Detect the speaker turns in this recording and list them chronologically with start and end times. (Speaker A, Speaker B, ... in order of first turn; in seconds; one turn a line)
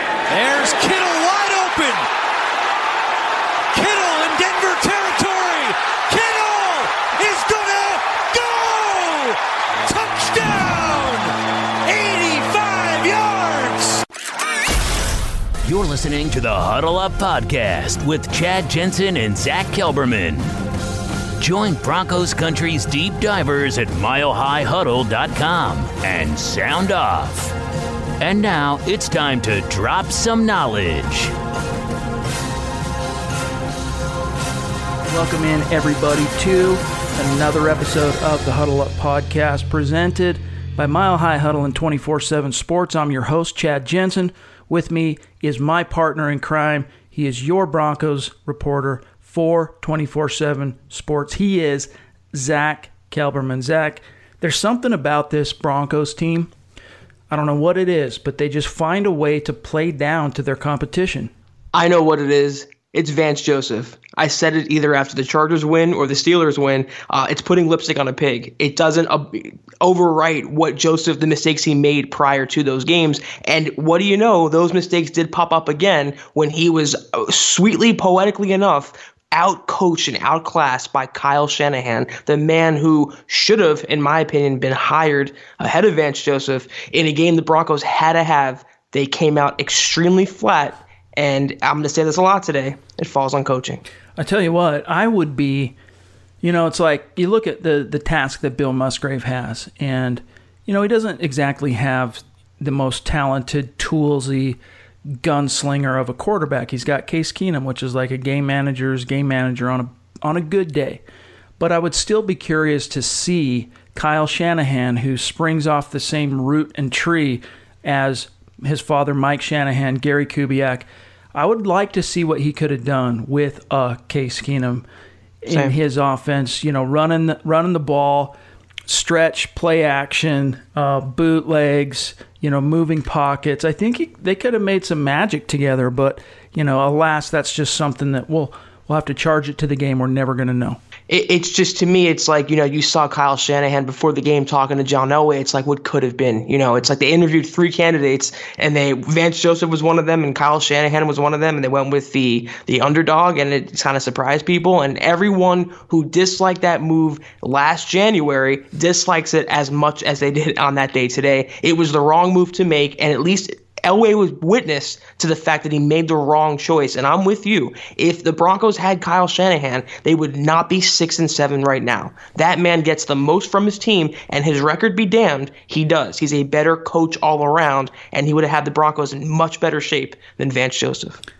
Speaker A: 0.3-2.0
Speaker A: 3.7-14.0
Speaker B: 15.6-20.5
Speaker B: 21.4-27.5
Speaker B: 28.2-31.3
Speaker C: 35.1-56.5
Speaker C: 57.3-61.3
Speaker D: 61.7-93.8
Speaker C: 94.2-95.8
Speaker C: 96.4-111.0
Speaker C: 111.6-124.8
Speaker C: 125.4-128.3
Speaker D: 125.5-125.7
Speaker C: 128.9-140.8
Speaker D: 141.1-181.2